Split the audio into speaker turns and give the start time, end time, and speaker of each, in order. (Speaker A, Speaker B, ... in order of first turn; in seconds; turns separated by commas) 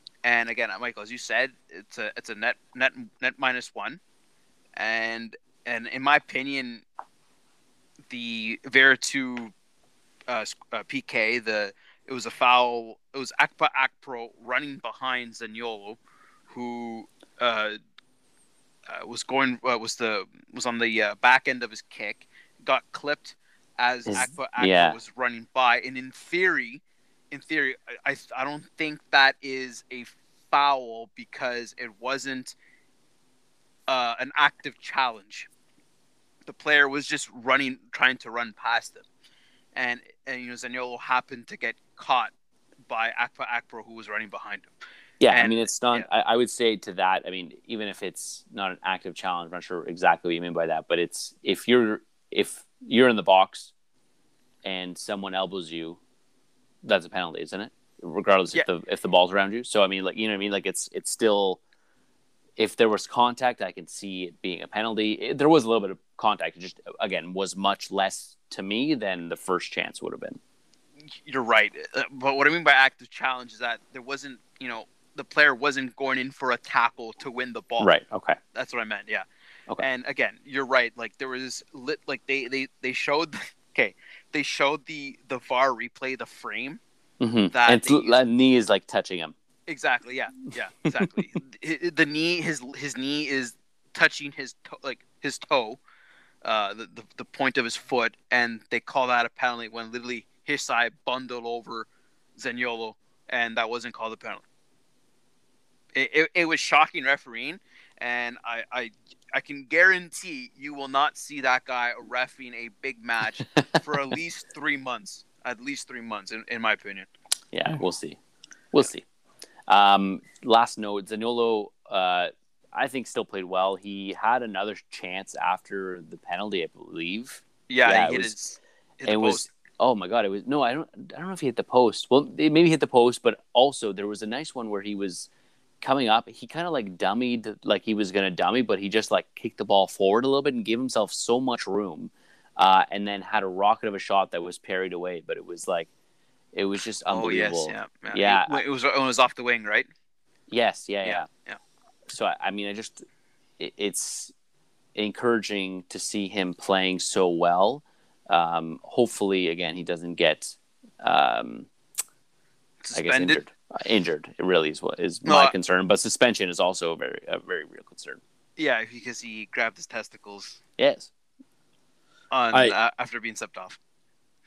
Speaker A: 0.2-4.0, Speaker A: 4.8-6.8, Speaker A: 8.1-9.5, Speaker A: 10.3-17.8, Speaker A: 18.9-32.5, Speaker B: 24.1-25.0, Speaker A: 33.9-35.5, Speaker A: 36.5-39.0, Speaker A: 39.8-42.3, Speaker A: 42.9-44.7, Speaker B: 45.2-53.7, Speaker A: 45.3-46.1, Speaker B: 54.6-56.0, Speaker B: 56.8-61.6, Speaker B: 62.6-70.4, Speaker A: 71.2-77.9, Speaker B: 77.8-78.4, Speaker A: 78.5-79.3, Speaker A: 79.8-86.8, Speaker B: 87.2-89.3, Speaker A: 87.5-88.2, Speaker A: 89.7-95.8, Speaker A: 96.4-104.4, Speaker A: 106.0-117.1, Speaker B: 117.5-118.2, Speaker B: 118.7-119.0, Speaker B: 119.7-128.3, Speaker A: 127.7-129.5, Speaker B: 129.1-135.3, Speaker B: 135.8-145.9, Speaker B: 146.5-148.6, Speaker A: 147.1-149.9, Speaker B: 150.5-151.3, Speaker A: 151.1-151.6, Speaker B: 152.1-153.1, Speaker B: 153.6-154.3, Speaker B: 154.9-161.7, Speaker A: 162.8-163.4, Speaker B: 162.9-168.2, Speaker A: 165.2-165.5, Speaker A: 168.6-170.6, Speaker B: 170.8-171.1, Speaker A: 172.3-173.8